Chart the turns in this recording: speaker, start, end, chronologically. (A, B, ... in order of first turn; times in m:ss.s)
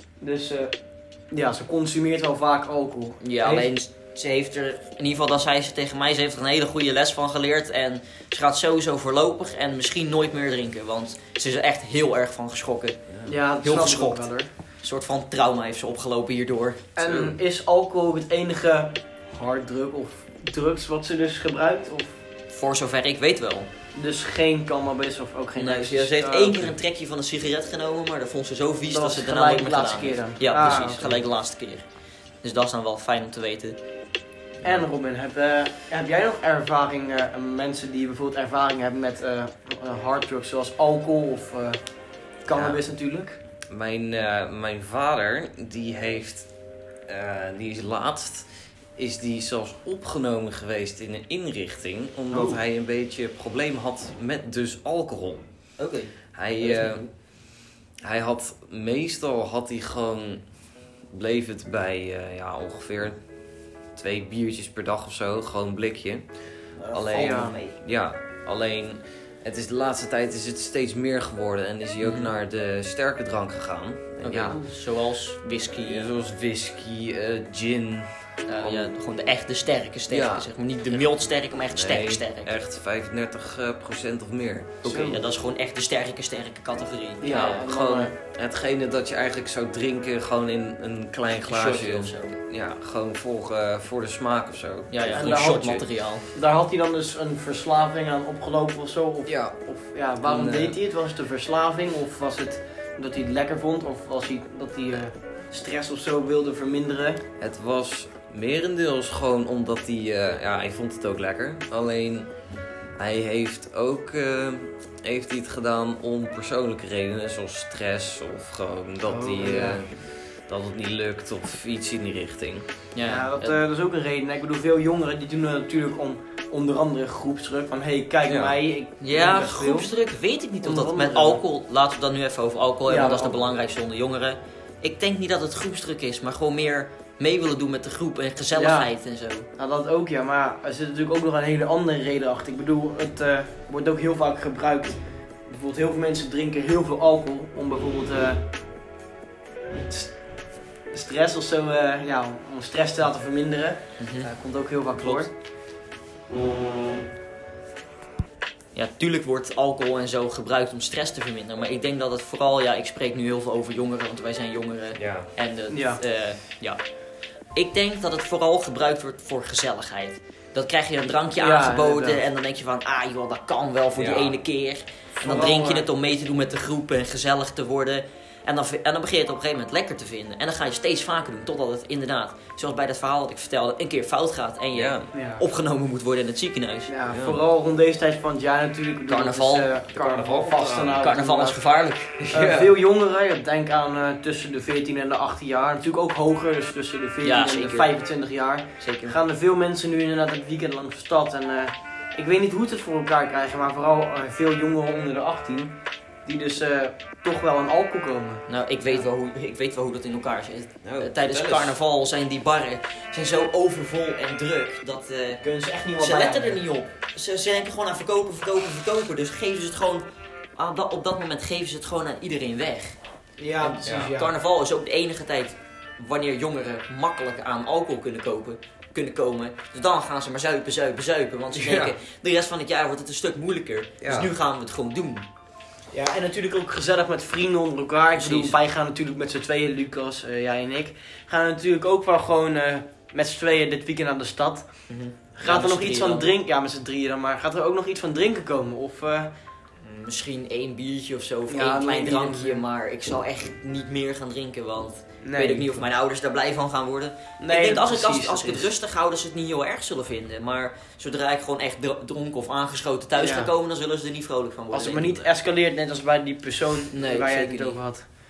0:00.2-0:00.8 A
0:01.3-0:03.7 A
0:03.2-0:13.0 B
0:13.3-0:14.5 A
0:13.6-0:16.8 B
0:17.0-0:22.2 A
0:17.0-0:17.4 C
0:22.5-0:23.7 B
0:24.0-0:26.7 A
0:25.6-0:31.8 B
0:28.9-0:31.2 A
0:32.4-0:33.8 B
0:34.6-0:41.8 A
0:42.4-0:43.4 A
0:42.5-0:42.8 C
0:43.7-0:46.5 C
0:47.1-0:55.4 C
0:55.8-0:57.1 B
0:56.3-0:57.1 C
0:58.0-1:00.4 C
1:01.1-1:03.2 C
1:04.0-1:14.6 C
1:06.8-1:07.8 B
1:07.1-1:07.6 A
1:12.0-1:12.3 B
1:14.2-1:16.1 B
1:15.7-1:18.9 C
1:18.5-1:22.5 B
1:20.1-1:20.5 C
1:21.7-1:24.8 C
1:24.8-1:27.7 B
1:24.8-1:25.2 A
1:27.2-1:28.1 A
1:27.3-1:35.8 C
1:31.5-1:32.4 B
1:34.9-1:36.2 B
1:35.1-1:47.2 A
1:39.3-1:39.6 C
1:40.2-1:40.8 C
1:47.4-1:52.3 C
1:53.0-2:02.7 C
1:59.1-1:59.8 A
2:02.9-2:03.6 B
2:03.0-2:09.9 A
2:08.2-2:08.6 C
2:09.0-2:19.5 B
2:10.6-2:11.4 A
2:12.9-2:13.4 A
2:18.6-2:18.9 A
2:19.6-2:28.4 A
2:29.9-2:35.3 A
2:34.0-2:34.3 B
2:35.0-2:35.3 B
2:38.7-2:46.8 B
2:45.0-2:45.3 C
2:45.7-2:46.0 A
2:47.5-3:06.9 B
2:51.4-2:52.2 A
2:54.0-2:54.4 C
2:55.2-2:55.9 A
3:04.7-3:05.1 C
3:05.1-3:05.4 A
3:06.9-3:11.6 A
3:07.1-3:07.4 C
3:09.1-3:09.7 B
3:09.9-3:11.0 C
3:11.0-3:12.2 B
3:12.2-3:12.8 C
3:12.3-3:28.4 A
3:17.2-3:17.9 B
3:18.8-3:19.2 B
3:28.5-3:35.4 B
3:30.8-3:31.8 C
3:35.4-3:36.6 A
3:35.9-3:40.0 B
3:40.6-3:43.0 B
3:43.4-3:44.3 A
3:43.6-3:55.3 B
3:43.8-3:44.1 C
3:51.5-3:52.0 C
3:54.0-3:54.3 C
3:55.9-4:09.3 A
3:58.2-3:58.6 B
4:04.9-4:06.3 B
4:09.8-4:25.3 B
4:11.5-4:12.6 A
4:15.2-4:15.8 A
4:17.4-4:18.7 A
4:23.2-4:23.5 A
4:24.7-4:28.1 A
4:26.9-4:27.8 B